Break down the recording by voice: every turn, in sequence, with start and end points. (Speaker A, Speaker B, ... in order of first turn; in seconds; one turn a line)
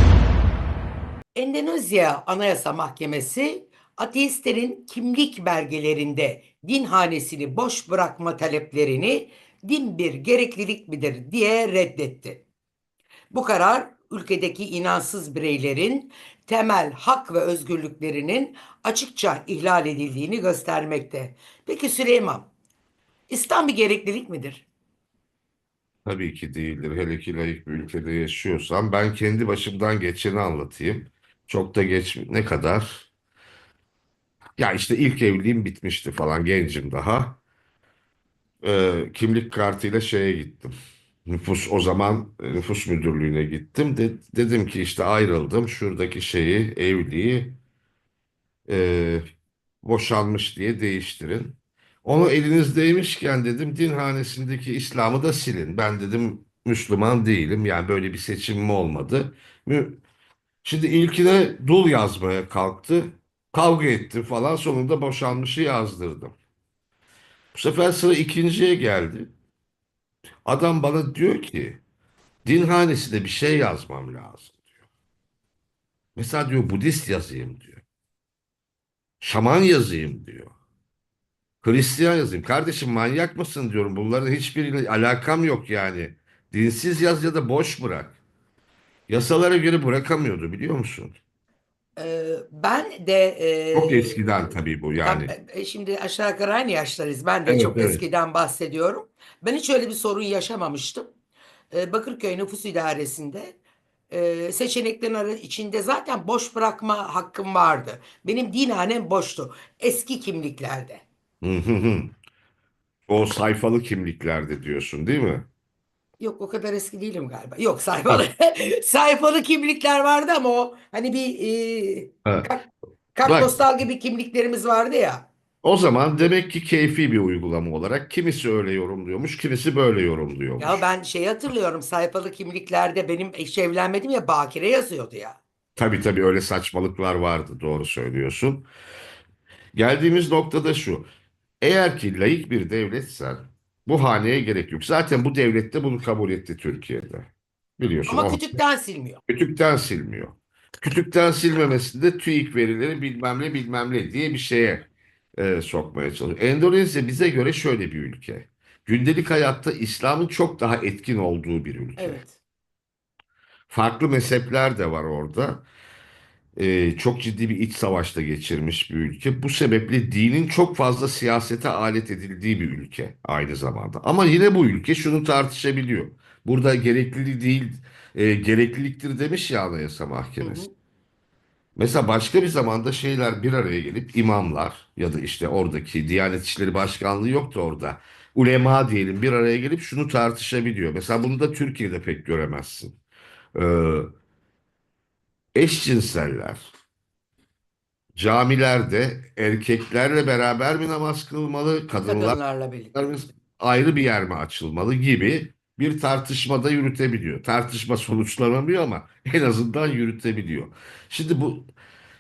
Speaker A: 1.3-12.4
Speaker A: 13.3-22.5
Speaker A: 23.3-24.7
Speaker B: 26.1-33.1
Speaker B: 34.6-37.4
Speaker B: 38.6-40.7
Speaker B: 41.2-47.6
Speaker B: 48.7-49.2
Speaker B: 49.8-60.0
Speaker B: 60.6-66.3
Speaker B: 67.5-69.3
Speaker B: 70.4-71.8
Speaker B: 72.4-74.6
Speaker B: 76.2-77.8
Speaker B: 79.2-80.5
Speaker B: 81.6-88.2
Speaker B: 89.1-91.2
Speaker A: 92.0-94.3
Speaker B: 93.7-95.3
Speaker A: 95.0-101.1
Speaker B: 97.5-98.0
Speaker A: 101.7-103.6
Speaker A: 104.1-111.0
Speaker B: 111.4-112.1
Speaker B: 113.1-115.5
Speaker A: 116.2-125.3
Speaker B: 123.2-123.5
Speaker B: 125.6-130.8
Speaker A: 130.6-135.4
Speaker B: 135.8-138.7
Speaker B: 139.7-141.1
Speaker B: 141.6-148.6
Speaker A: 148.1-149.2
Speaker B: 149.3-162.2
Speaker A: 162.0-162.4
Speaker B: 163.7-165.6
Speaker B: 166.6-180.6
Speaker A: 180.4-180.7
Speaker B: 181.8-192.9
Speaker B: 193.5-194.1
Speaker B: 195.5-196.7
Speaker B: 198.1-202.4
Speaker A: 202.0-202.9
Speaker B: 202.9-211.7